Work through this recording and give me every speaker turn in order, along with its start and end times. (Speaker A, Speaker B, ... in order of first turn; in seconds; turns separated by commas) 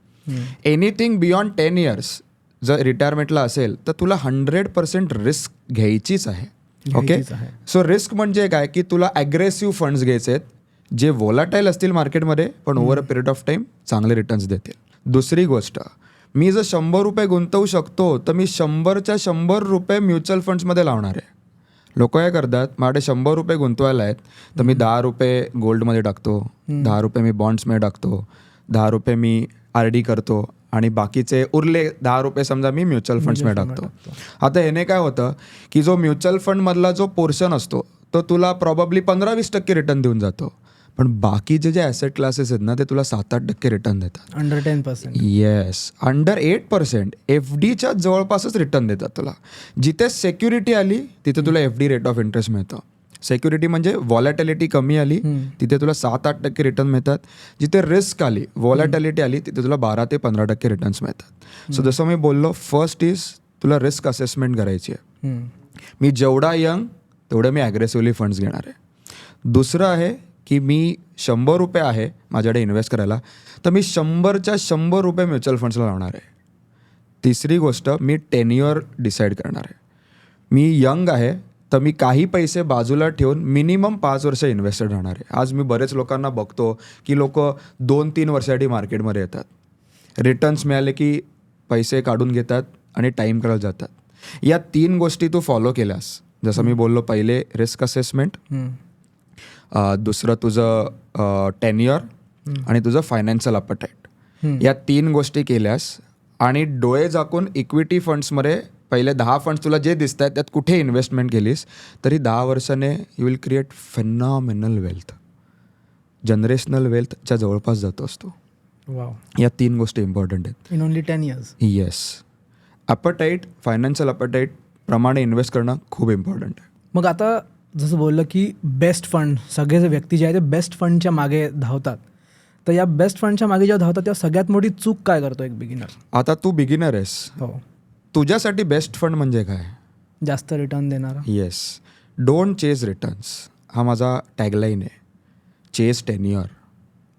Speaker A: 0.3-0.5, Speaker B: 0.7-10.5, Speaker A: 6.9-7.5, Speaker B: 11.0-21.3, Speaker A: 12.8-13.1, Speaker B: 22.0-44.3, Speaker A: 24.6-24.8, Speaker A: 33.2-34.2, Speaker A: 44.4-45.2, Speaker B: 45.1-65.0, Speaker A: 65.2-65.5, Speaker B: 66.0-68.8, Speaker B: 69.5-76.3, Speaker B: 77.2-79.8, Speaker B: 80.5-89.5, Speaker B: 90.2-98.4, Speaker A: 98.5-98.8, Speaker B: 99.7-102.0, Speaker B: 102.7-104.1, Speaker B: 104.6-115.2, Speaker B: 116.3-118.3, Speaker A: 118.9-119.2, Speaker B: 119.4-120.6, Speaker A: 120.7-121.5, Speaker B: 121.6-122.2, Speaker B: 122.9-126.6, Speaker A: 126.9-132.0, Speaker A: 132.7-136.0, Speaker B: 136.1-137.3, Speaker B: 138.1-139.8, Speaker A: 140.2-141.3, Speaker B: 141.3-144.9, Speaker B: 145.7-146.5